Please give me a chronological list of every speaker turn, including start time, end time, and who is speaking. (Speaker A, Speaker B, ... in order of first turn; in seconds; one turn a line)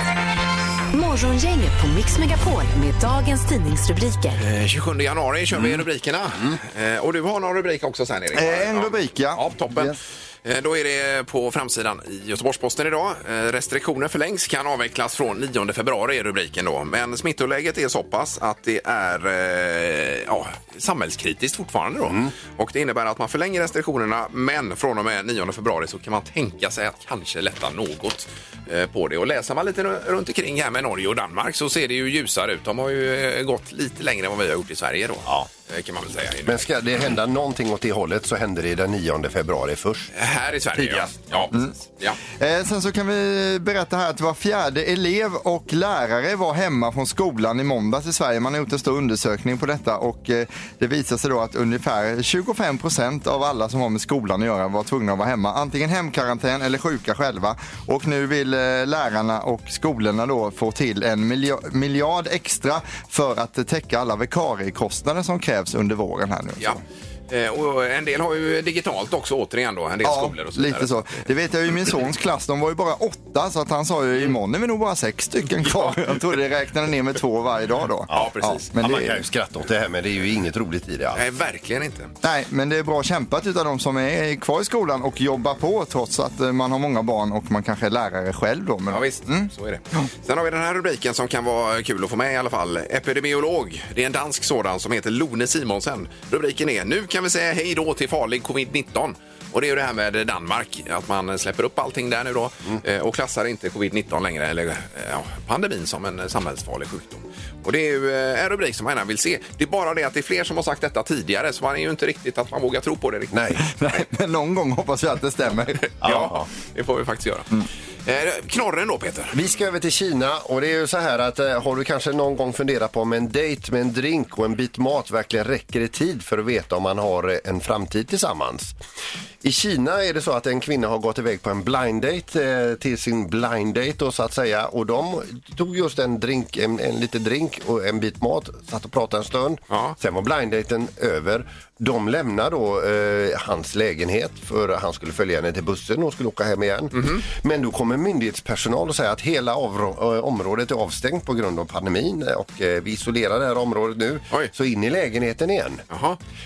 Speaker A: 0.9-4.4
Speaker B: 4.3-36.7
Speaker C: 5.5-5.8
Speaker D: 8.3-10.0
Speaker C: 22.0-22.3
Speaker C: 36.5-40.1
Speaker B: 40.1-42.2
Speaker C: 40.8-41.1
Speaker D: 42.4-66.8
Speaker B: 66.6-71.2
Speaker D: 70.0-79.2
Speaker B: 75.6-76.2
Speaker C: 78.1-81.2
Speaker B: 78.1-78.7
Speaker B: 81.1-82.1
Speaker D: 82.2-90.1
Speaker B: 88.9-113.6
Speaker C: 113.3-113.6
Speaker D: 113.7-115.9
Speaker B: 115.8-117.5
Speaker C: 116.0-116.5
Speaker B: 118.0-119.4
Speaker C: 119.3-128.8
Speaker C: 129.4-155.8
Speaker B: 139.7-140.0
Speaker B: 146.9-147.2
Speaker B: 155.9-156.2